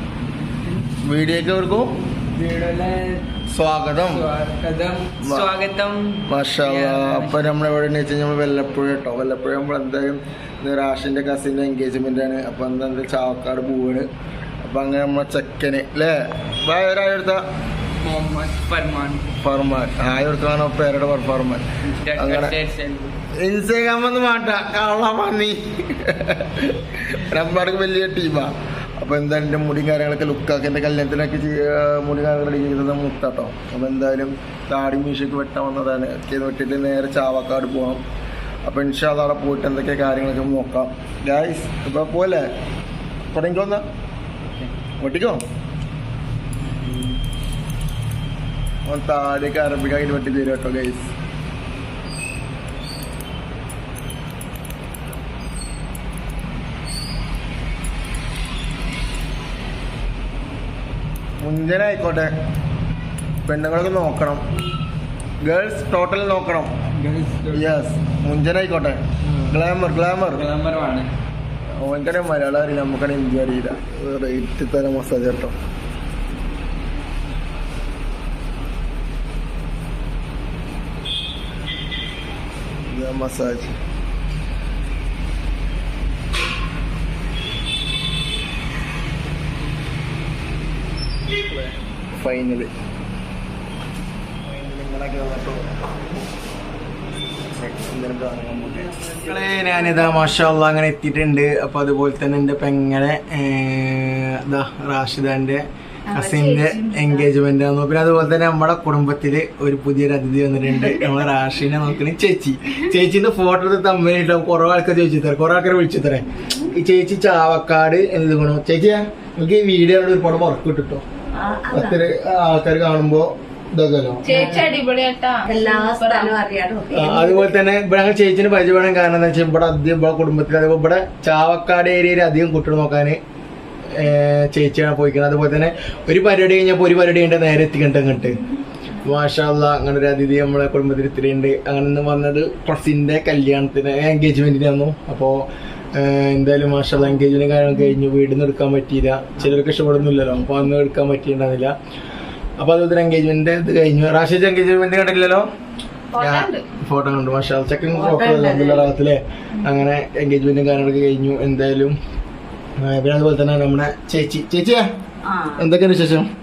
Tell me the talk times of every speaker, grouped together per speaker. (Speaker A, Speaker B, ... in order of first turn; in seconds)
Speaker A: 1.0-1.9, 3.5-4.3, 5.2-5.5, 6.3-14.1, 14.6-17.4, 19.3-22.6, 23.4-38.0, 38.7-42.5, 43.3-43.8, 45.0-45.4, 48.9-51.1, 61.4-62.3, 63.5-64.4, 65.4-66.7, 67.5-70.5, 71.8-75.5, 82.9-83.8, 91.3-92.7, 94.4-95.7, 97.6-121.0, 121.7-124.7, 126.9-133.2, 134.0-138.4, 139.0-151.7, 152.6-155.4, 156.2-161.9, 162.8-164.8, 165.6-166.3
Speaker B: 2.3-3.2, 4.0-7.5, 17.9-19.3, 21.8-23.2, 46.6-47.2, 67.0-67.7, 69.2-69.6, 70.3-71.1, 99.0-100.0
Speaker C: 106.1-107.3, 124.2-126.3, 156.1-156.7
Speaker D: 121.4-122.0, 124.3-124.8, 125.5-127.6, 157.9-159.0, 165.2-165.7